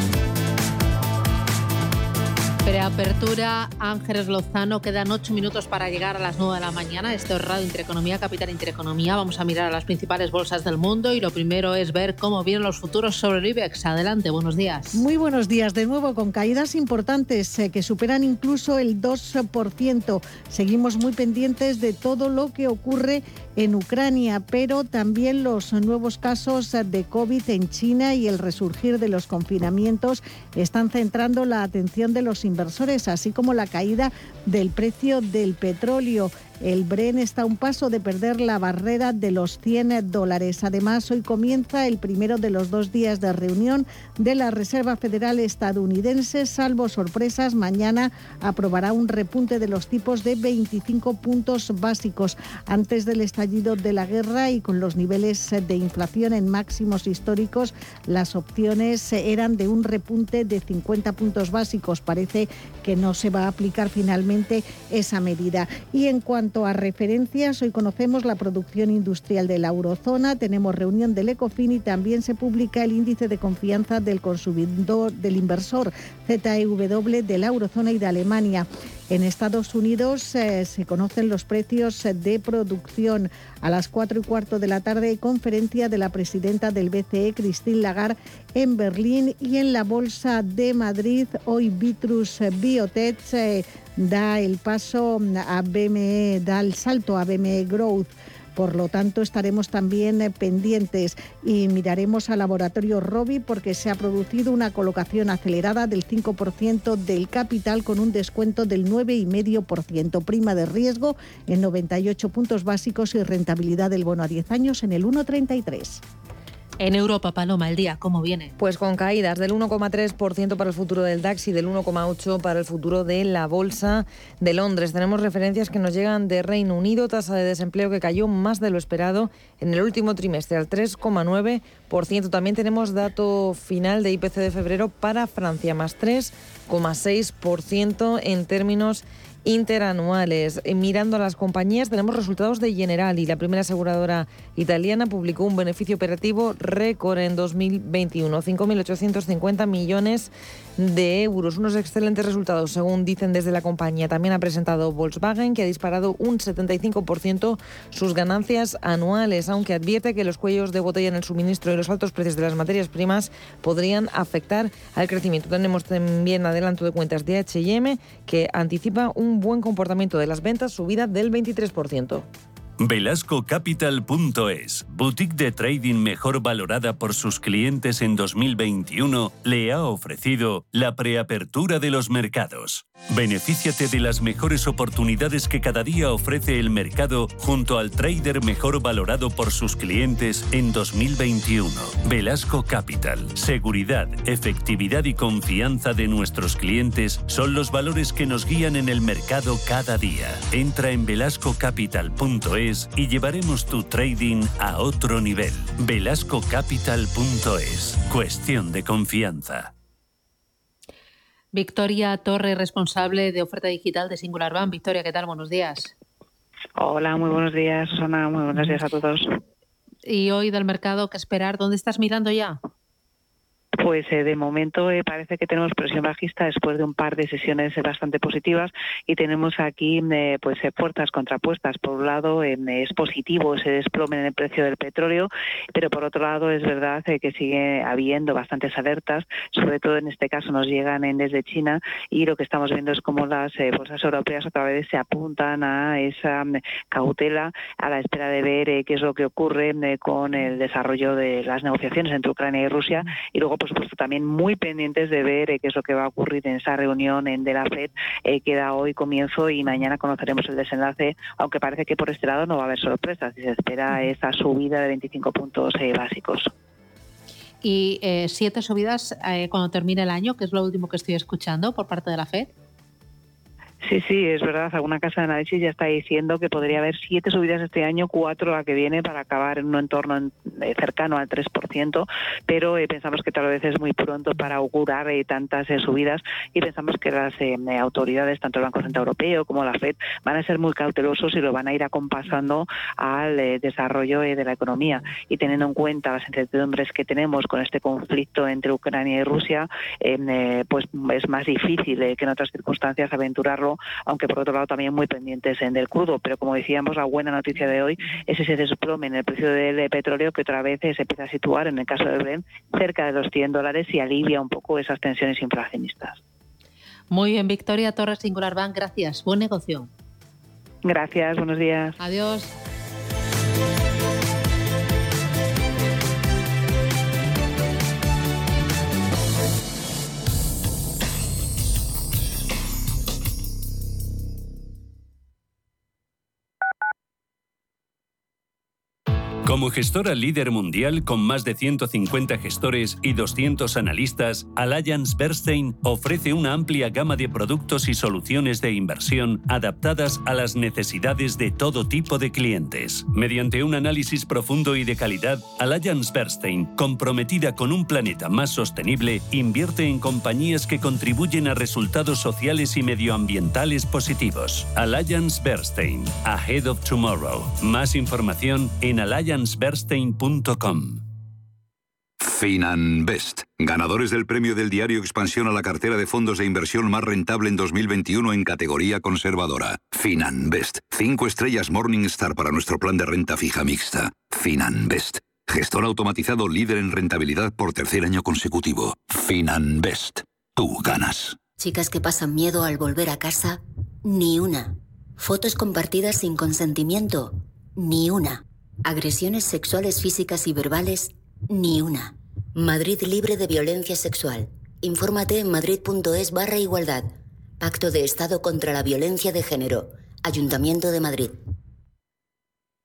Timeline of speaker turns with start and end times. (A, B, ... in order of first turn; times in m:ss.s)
0:02.7-0:15.0 A
0:14.9-1:56.0 B
1:56.8-1:58.5 A
1:58.6-2:52.3 C
2:52.8-3:29.7 D
3:31.5-3:35.9 A
3:36.8-3:39.3 E
3:40.1-3:42.6 A
3:43.8-4:26.5 E
4:27.6-4:32.5 A
4:33.8-5:16.2 E
5:17.1-5:19.9 A
5:20.8-5:22.0 E
5:22.0-5:22.5 A
5:39.4-6:11.0 D
6:12.2-6:31.4 F
6:31.6-6:47.1 G
6:47.6-6:51.4 G